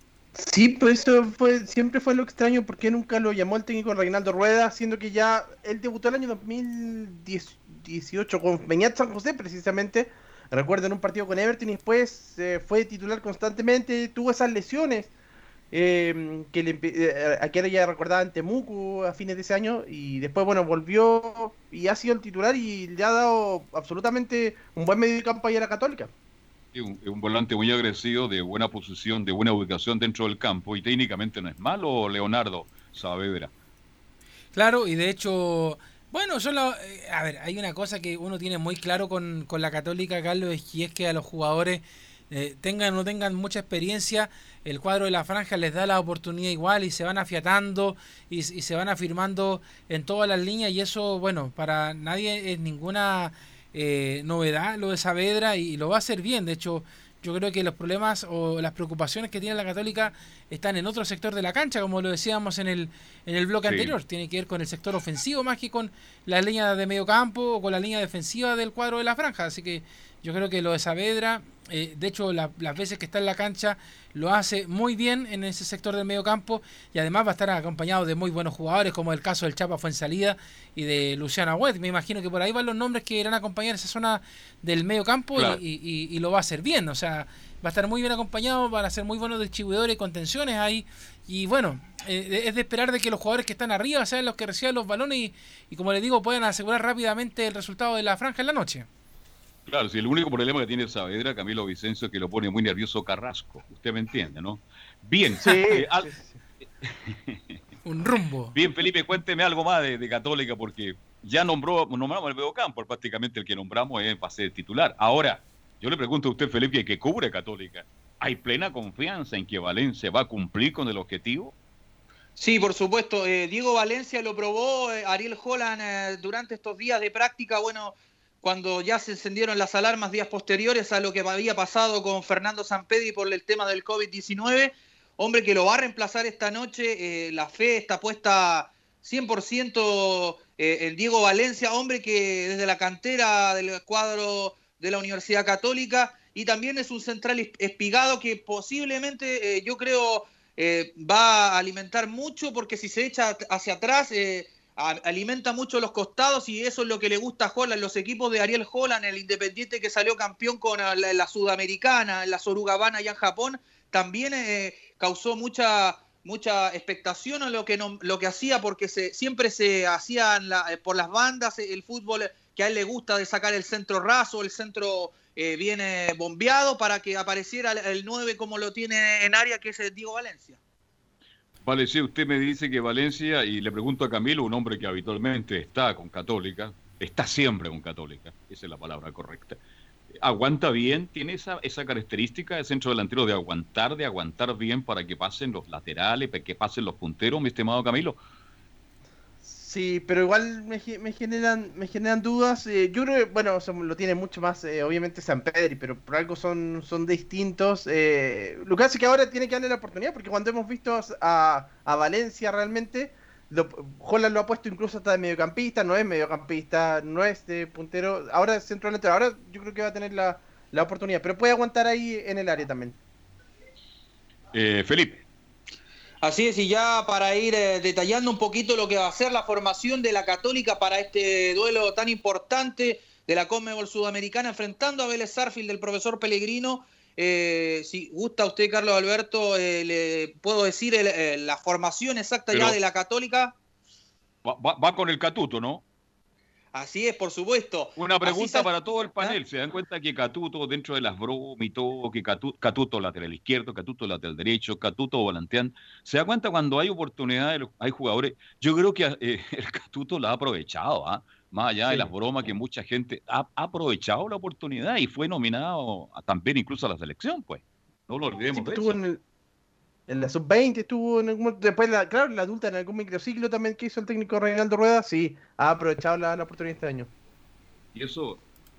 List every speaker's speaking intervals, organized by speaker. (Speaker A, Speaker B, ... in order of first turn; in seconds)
Speaker A: 0.4-15.1, 15.7-26.1, 105.4-106.4, 199.4-223.0, 268.5-269.2, 270.1-277.1
Speaker B: 26.7-33.5, 63.6-63.9, 99.7-106.1, 106.8-107.6, 108.5-121.5, 181.6-189.6, 190.2-198.2, 224.5-225.2, 244.4-245.8, 248.0-269.0, 277.9-278.4
Speaker C: 34.5-98.9, 107.8-108.6
Speaker D: 122.4-180.6, 226.2-243.6, 246.7-249.4